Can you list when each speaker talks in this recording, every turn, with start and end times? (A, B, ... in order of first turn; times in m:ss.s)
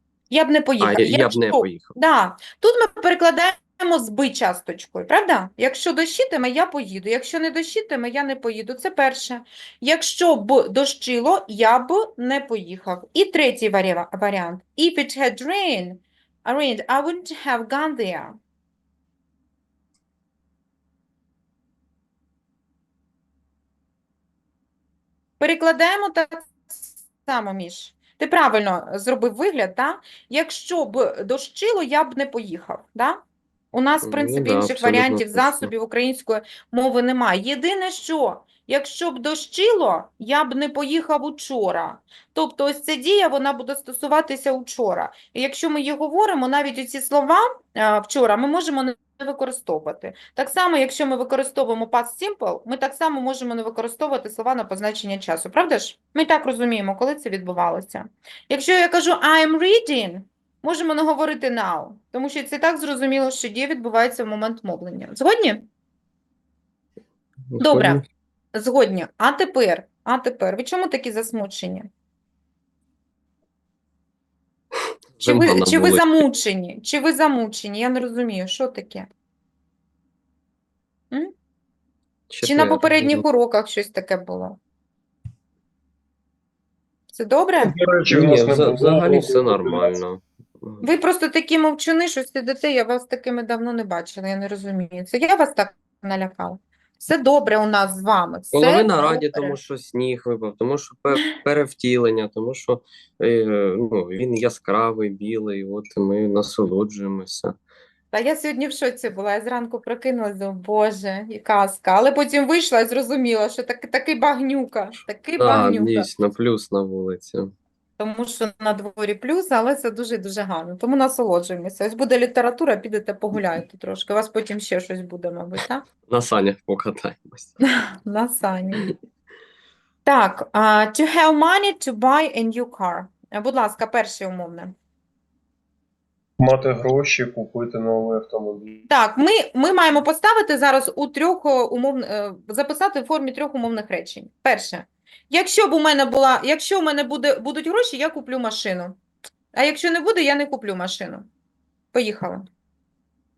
0:00.3-0:18.4 A
0:00.8-0:01.9 B
0:25.4-1:05.7 A
0:34.0-0:35.7 B
1:07.5-1:08.1 B
1:07.6-1:08.0 A
1:08.5-1:11.9 A
1:15.1-1:16.2 B
1:15.2-1:19.1 A
1:22.3-1:23.2 B
1:22.4-1:24.6 A
1:27.1-1:27.8 A
1:27.6-1:30.0 C
1:28.1-1:30.9 B
1:30.8-1:39.6 A
1:38.5-1:47.6 B
1:48.1-1:56.1 A
1:55.4-1:57.5 B
1:58.0-2:05.9 A
2:06.1-2:07.6 B
2:07.6-2:08.9 A
2:10.0-2:14.7 A
2:16.4-2:18.9 C
2:18.9-2:29.0 A
2:29.5-2:31.3 A
2:31.9-2:32.5 A